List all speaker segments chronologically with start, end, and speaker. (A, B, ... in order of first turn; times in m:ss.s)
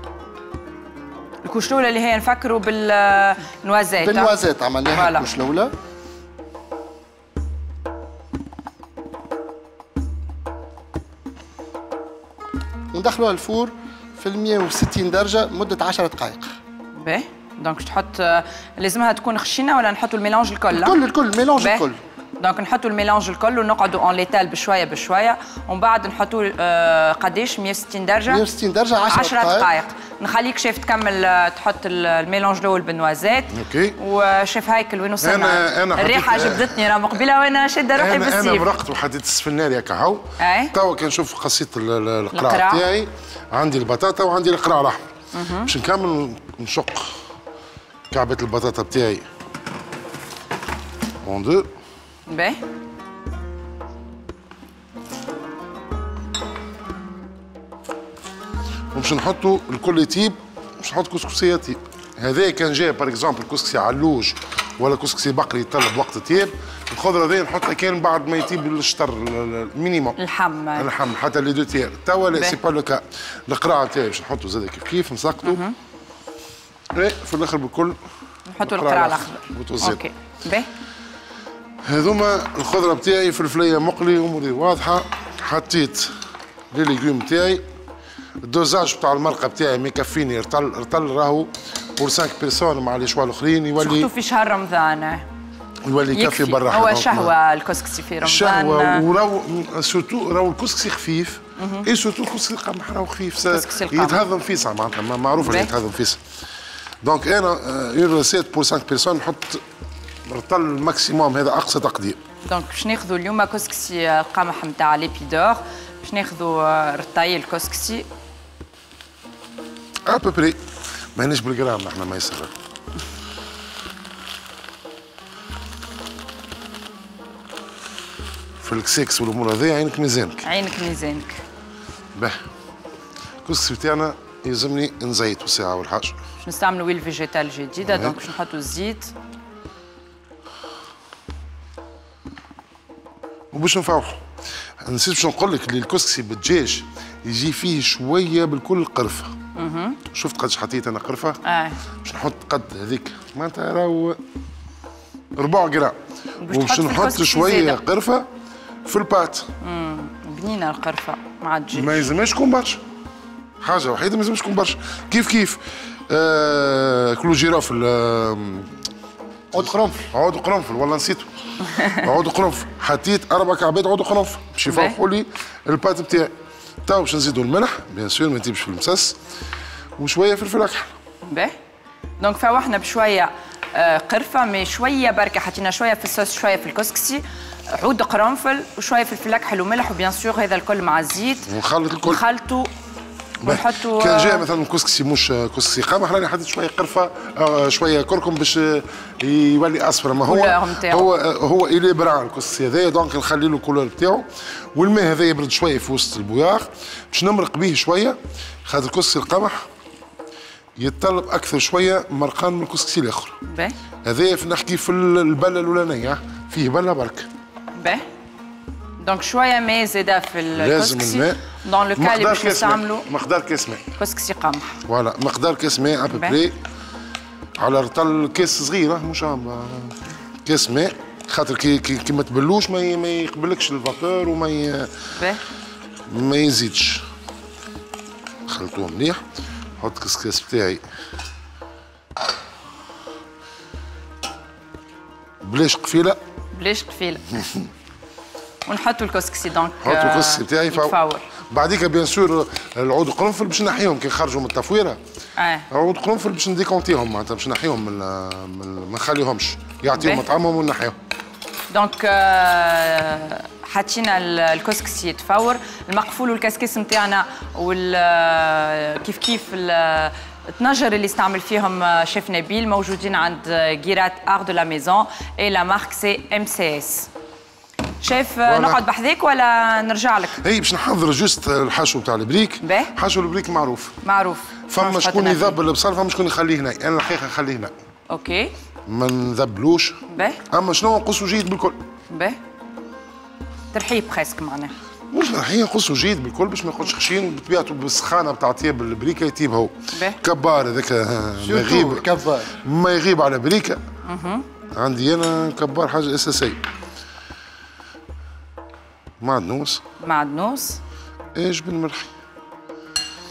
0:01.4-0:04.3 A
0:04.0-0:05.7 B
0:04.9-0:05.3 A
0:12.9-0:16.4 B
0:17.0-0:21.0 A
0:20.7-0:22.0 B
0:21.6-0:21.8 A
0:22.4-0:28.4 A
0:28.3-0:29.7 B
0:29.1-0:38.7 A
0:33.5-0:34.0 C
0:35.2-0:36.8 C
0:37.9-0:45.0 C
0:40.4-0:40.7 A
0:42.3-0:42.8 A
0:45.3-0:45.7 A
0:45.6-0:47.2 C
0:48.1-0:49.2 C
0:51.2-0:51.7 C
0:52.3-0:52.6 A
0:58.9-1:10.2 C
1:10.2-1:10.9 A
1:10.8-1:15.6 C
1:15.4-1:15.7 A
1:16.9-1:18.0 C
1:18.5-1:20.7 A
1:18.6-1:20.0 C
1:21.8-1:26.1 C
1:26.7-1:27.6 C
1:28.4-1:34.1 C
1:33.8-1:35.2 A
1:35.8-1:37.3 C
1:36.1-1:39.0 A
1:38.2-1:46.2 C
1:41.6-1:41.9 A
1:43.5-1:44.2 A
1:45.4-1:45.7 A
1:47.0-1:49.6 C
1:50.2-1:52.2 C
1:52.4-1:58.0 A
2:00.0-2:00.6 C
2:01.1-2:02.5 C
2:08.6-2:10.4 C
2:10.4-2:11.4 A
2:13.4-2:16.2 C
2:16.4-2:19.1 A
2:17.8-2:18.2 C
2:23.5-2:24.2 C
2:24.8-2:29.3 C
2:29.5-2:30.0 A
2:30.1-2:31.4 C
2:31.4-2:31.8 A
2:32.0-2:34.2 C
2:35.3-2:36.0 C
2:36.4-2:37.8 A
2:36.5-2:38.3 C
2:38.8-2:39.4 C
2:39.6-2:42.1 A
2:41.7-2:42.8 C
2:43.6-2:48.8 C
2:49.5-2:50.1 B
2:50.1-2:56.3 C
2:54.6-2:55.0 A
2:56.8-2:59.2 C
3:00.0-3:00.9 C
3:01.2-3:01.5 A
3:02.2-3:12.7 A
3:11.5-3:12.2 C
3:13.4-3:29.6 C
3:13.4-3:14.4 A
3:20.2-3:21.1 A
3:30.8-3:33.4 C
3:33.4-3:33.7 A
3:34.0-3:37.3 C
3:37.8-3:38.0 A
3:39.0-3:43.0 A
3:40.5-3:41.4 C
3:42.0-3:43.8 C
3:44.0-3:44.8 A
3:44.9-3:46.5 C
3:46.1-3:46.4 A
3:47.6-3:54.9 C
3:55.2-3:55.4 A
3:56.1-3:57.0 C
3:58.5-3:59.2 C
3:59.8-4:00.8 C
4:05.4-4:06.2 C
4:06.5-4:07.4 A
4:08.6-4:11.3 A
4:09.8-4:15.0 C
4:15.4-4:15.7 A
4:15.7-4:21.0 C
4:20.0-4:20.2 A
4:21.7-4:37.1 A
4:38.0-4:40.4 A
4:38.4-4:38.8 C
4:40.4-4:44.0 C
4:42.6-4:42.9 A
4:44.0-4:45.6 A
4:44.7-4:47.7 C
4:48.1-4:48.5 A
4:48.8-4:50.0 C
4:50.1-4:50.4 A
4:50.5-4:51.8 C
4:52.1-4:52.4 A
4:53.7-4:54.7 A
4:55.1-5:02.0 C
4:59.9-5:00.2 A
5:01.4-5:02.5 B
5:02.6-5:03.8 C
5:04.0-5:04.4 A
5:04.7-5:06.6 C
5:09.2-5:09.8 C
5:10.0-5:10.8 A
5:11.3-5:12.1 C